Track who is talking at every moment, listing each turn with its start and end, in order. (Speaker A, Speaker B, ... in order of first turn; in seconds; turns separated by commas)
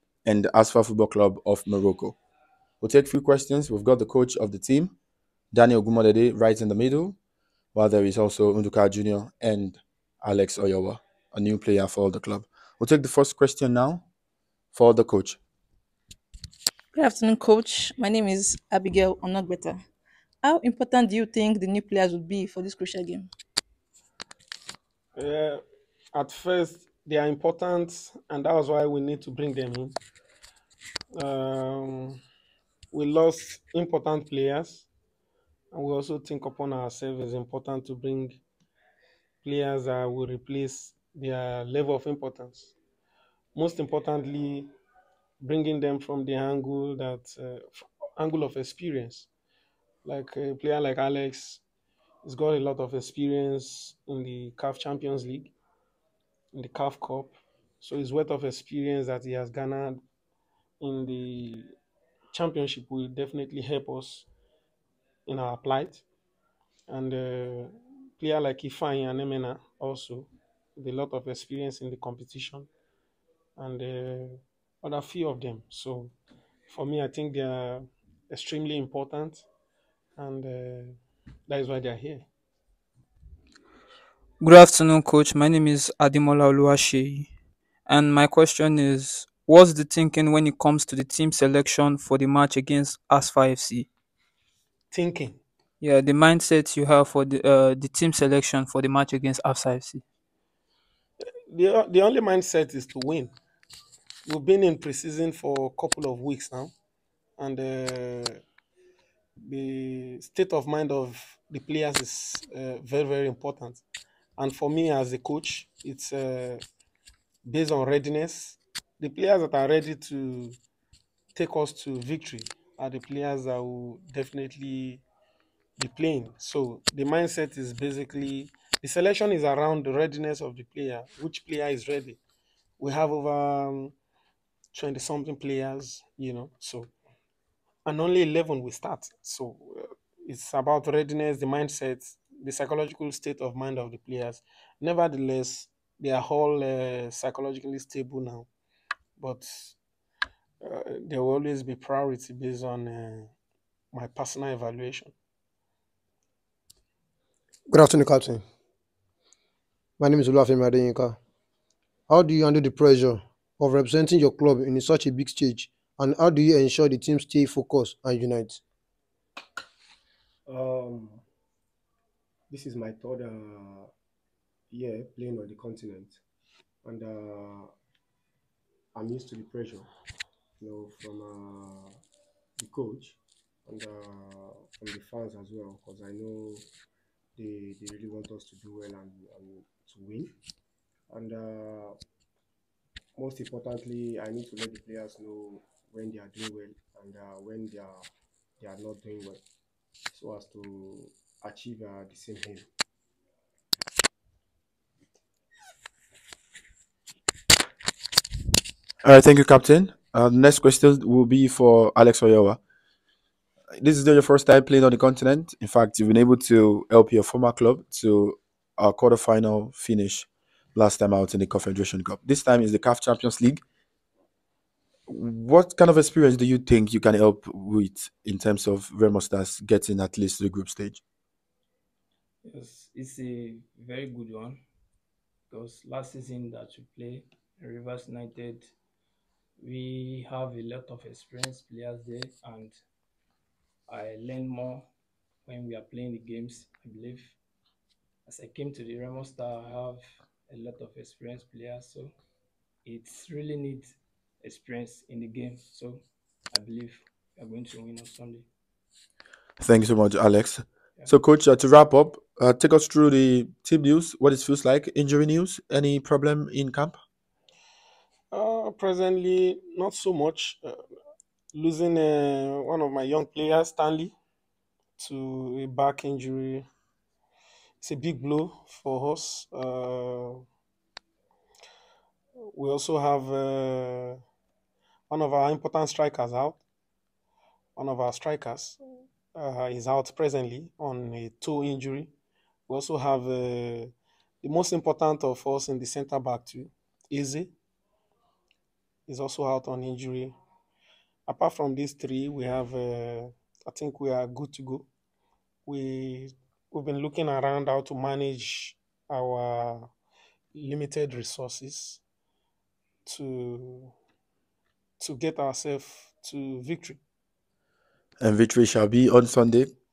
Speaker A: 0.2-2.2, Speaker A: 2.8-4.9, Speaker A: 5.5-7.2, Speaker A: 7.7-14.1, Speaker A: 14.7-15.4, Speaker B: 16.9-19.8, Speaker B: 20.4-23.3, Speaker C: 25.2-25.6, Speaker C: 26.1-30.0, Speaker C: 31.2-32.2, Speaker C: 32.9-34.9, Speaker C: 35.7-38.4, Speaker C: 39.4-42.8, Speaker C: 43.5-44.7, Speaker C: 45.4-49.3, Speaker C: 50.0-51.6, Speaker C: 52.2-55.5, Speaker C: 56.5-60.0, Speaker C: 60.8-61.7, Speaker C: 62.3-64.3, Speaker C: 65.3-66.0, Speaker C: 66.9-72.7, Speaker C: 73.6-76.1, Speaker C: 76.7-79.5, Speaker C: 80.2-82.3, Speaker D: 84.4-87.3, Speaker D: 87.9-93.9, Speaker C: 94.9-95.4, Speaker D: 95.8-100.0, Speaker C: 101.5-103.3, Speaker C: 104.3-106.7, Speaker C: 107.4-108.4, Speaker C: 109.5-113.8, Speaker C: 114.4-116.6, Speaker C: 117.4-120.6, Speaker C: 121.3-125.0, Speaker C: 125.8-132.2, Speaker C: 132.8-133.9, Speaker C: 134.7-136.9, Speaker C: 137.8-148.5, Speaker C: 149.2-149.8, Speaker C: 150.6-153.3, Speaker C: 153.9-155.1, Speaker E: 157.7-158.4, Speaker E: 160.0-161.2, Speaker E: 162.1-168.6, Speaker F: 170.5-171.2, Speaker F: 172.5-173.9, Speaker F: 174.7-176.2, Speaker F: 176.8-177.7, Speaker F: 178.9-179.9, Speaker F: 180.6-182.0, Speaker F: 182.6-186.7, Speaker F: 187.4-190.3, Speaker F: 191.1-192.0, Speaker F: 193.2-198.1, Speaker F: 198.6-199.4, Speaker F: 200.1-202.7, Speaker A: 209.0-212.6, Speaker A: 213.8-223.6, Speaker A: 225.1-231.0, Speaker G: 232.4-234.6, Speaker G: 235.5-238.7, Speaker G: 239.6-242.8, Speaker G: 243.9-244.9, Speaker G: 245.4-247.4, Speaker G: 248.3-252.1, Speaker G: 252.8-253.9, Speaker G: 254.4-258.5, Speaker A: 259.6-267.0, Speaker C: 268.3-270.8, Speaker C: 271.5-274.1, Speaker C: 275.0-276.7, Speaker C: 277.8-280.4, Speaker C: 282.4-284.2, Speaker C: 285.1-286.6, Speaker C: 287.8-288.8, Speaker C: 289.3-292.1, Speaker C: 292.7-297.5, Speaker C: 299.1-300.4, Speaker C: 301.3-304.9, Speaker C: 305.7-309.9, Speaker C: 310.5-312.0, Speaker C: 313.1-313.9, Speaker C: 315.0-317.0, Speaker A: 318.2-319.7